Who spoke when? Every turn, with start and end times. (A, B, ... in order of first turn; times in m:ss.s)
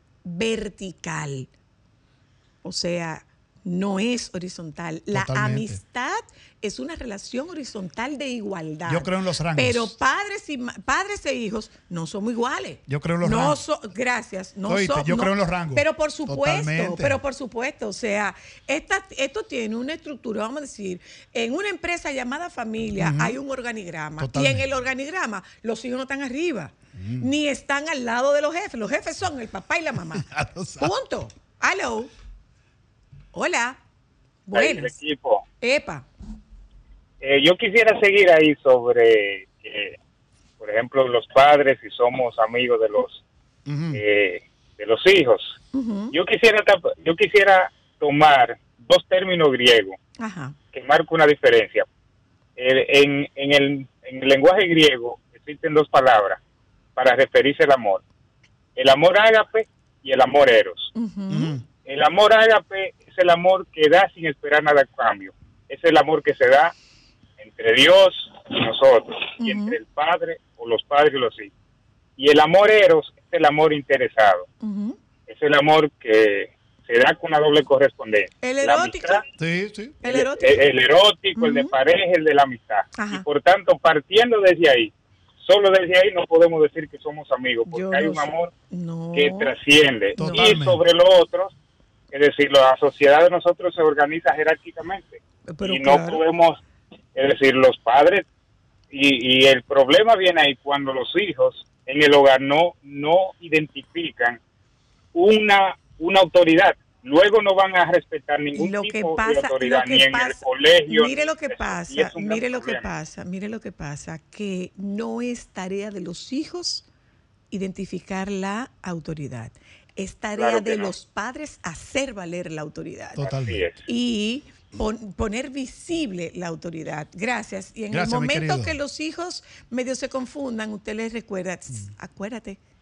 0:00.2-0:01.5 A
0:02.6-0:30.3 A
0:05.1-0:05.8 B
0:08.9-0:09.9 B
0:12.9-0:13.6 B
0:14.7-0:17.2 B
0:23.0-0:23.4 B
0:24.2-0:24.6 B
0:27.0-0:27.3 B
0:30.2-0:30.9 B
0:30.8-0:32.1 A
0:33.3-0:33.8 A
0:34.5-0:35.0 A
0:34.5-0:35.4 C
0:35.6-0:36.1 A
0:37.2-0:40.0 C
0:40.6-0:43.2 C
0:43.7-0:44.0 B
0:43.9-0:45.6 C
0:45.7-0:46.1 A
0:46.1-0:50.0 C
0:50.2-0:50.6 A
0:50.7-0:51.9 C
0:52.6-0:56.4 C
0:57.0-0:58.0 C
0:58.8-1:00.9 C
1:00.9-1:01.5 A
1:01.3-1:01.7 B
1:01.8-1:06.8 C
1:07.4-1:11.5 C
1:09.4-1:09.8 A
1:12.2-1:14.5 C
1:14.6-1:15.0 A
1:15.3-1:19.2 C
1:18.4-1:19.2 A
1:19.4-1:20.0 B
1:20.0-1:20.6 A
1:20.0-1:28.5 C
1:21.4-1:21.8 A
1:23.0-1:23.2 A
1:27.7-1:29.6 A
1:29.1-1:31.6 C
1:30.2-1:30.8 B
1:30.2-1:30.6 A
1:32.1-1:36.6 C
1:35.5-1:36.2 A
1:37.2-1:38.2 C
1:38.9-1:44.4 C
1:45.1-1:52.9 C
1:48.6-1:56.9 A
1:57.5-2:03.3 A
2:00.4-2:00.9 C
2:03.2-2:03.7 B
2:03.2-2:03.8 C
2:03.9-2:12.6 A
2:07.9-2:08.8 B